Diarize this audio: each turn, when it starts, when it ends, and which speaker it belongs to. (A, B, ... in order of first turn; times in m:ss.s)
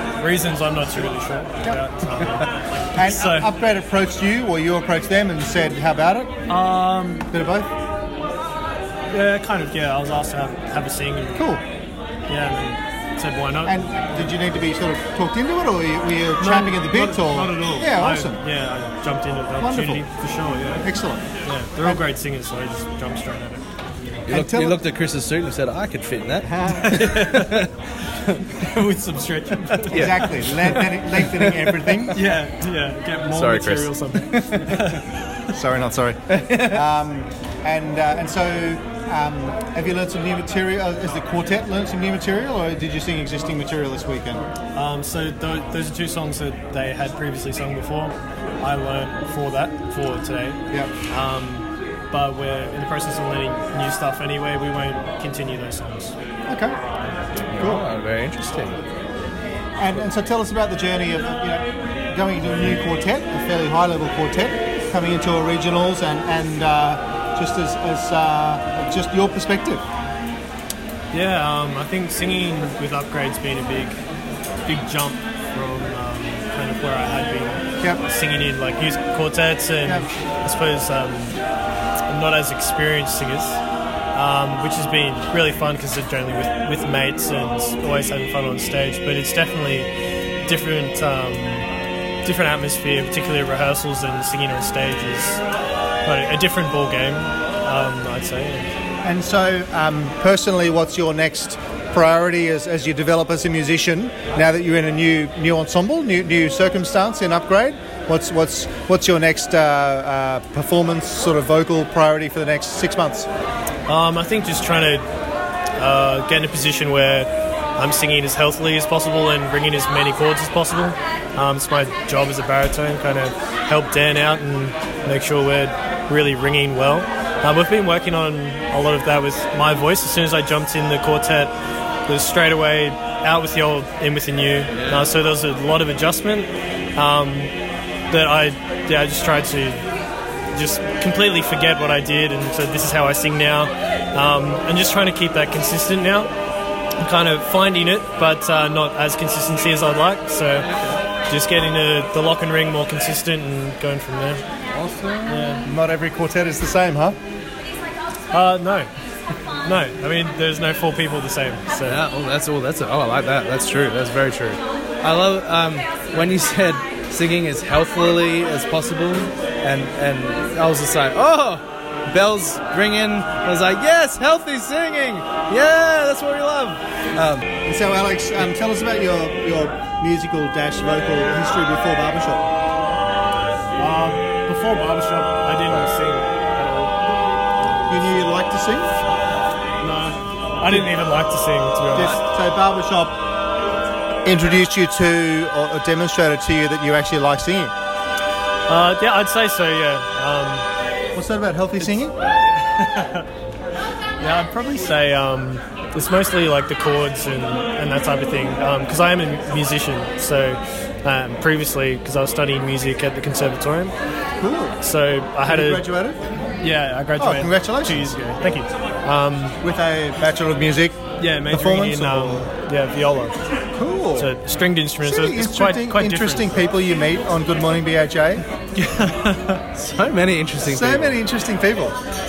0:00.2-0:03.5 A
0:03.0-0:06.4 B
0:06.5-0:07.3 A
0:07.3-0:07.7 B
0:09.1-0:11.5 A
0:11.4-0:11.6 B
0:12.3-0:14.4 A
0:13.6-0:18.4 B
0:16.4-0:20.9 A
0:19.6-0:20.0 B
0:20.8-0:21.3 B
0:21.4-0:23.6 A
0:24.3-0:24.8 B
0:24.3-0:28.6 C
0:26.4-0:27.2 B
0:26.8-0:27.7 A
0:28.6-0:30.2 A
0:29.7-0:32.0 C
0:29.9-0:32.3 B
0:32.1-0:35.1 A
0:33.3-0:35.0 C
0:35.5-0:44.4 B
0:36.3-0:36.8 C
0:44.8-0:56.2 A
0:56.5-0:56.8 B
0:57.4-0:58.8 C
0:57.6-0:57.8 B
0:59.8-1:09.8 B
1:11.1-1:14.0 A
1:14.7-1:21.4 A
1:22.1-1:23.6 A
1:24.1-1:29.9 A
1:30.4-1:31.7 A
1:32.2-1:35.4 A
1:36.0-1:38.7 A
1:39.0-1:53.3 B
1:53.9-1:55.1 A
1:55.8-2:11.5 A
2:12.1-2:17.5 A
2:14.7-2:15.1 C
2:18.1-2:19.8 A
2:20.5-2:26.3 A
2:27.0-2:30.7 A
2:30.6-2:31.0 C
2:31.3-2:34.4 A
2:34.7-2:35.4 C
2:35.3-2:35.6 A
2:35.6-2:37.2 B
2:38.3-2:38.9 A
2:39.6-2:42.0 A
2:41.9-2:57.5 C
2:57.7-3:02.5 B
3:03.8-3:07.0 A
3:07.6-3:08.4 A
3:07.9-3:09.0 B
3:09.8-3:12.2 A
3:11.9-3:13.2 B
3:14.2-3:17.7 B
3:18.7-3:20.7 A
3:21.1-3:22.1 B
3:21.8-3:23.3 A
3:24.2-3:34.0 A
3:34.4-3:34.8 B
3:34.8-3:35.9 A
3:35.5-3:36.2 B
3:36.6-3:39.6 A
3:37.2-3:38.2 B
3:39.6-3:42.5 B
3:41.2-3:43.4 A
3:43.7-3:44.3 B
3:44.2-3:46.7 A
3:45.0-3:48.4 B
3:48.8-3:49.6 A
3:49.7-3:51.2 C
3:50.6-3:52.0 B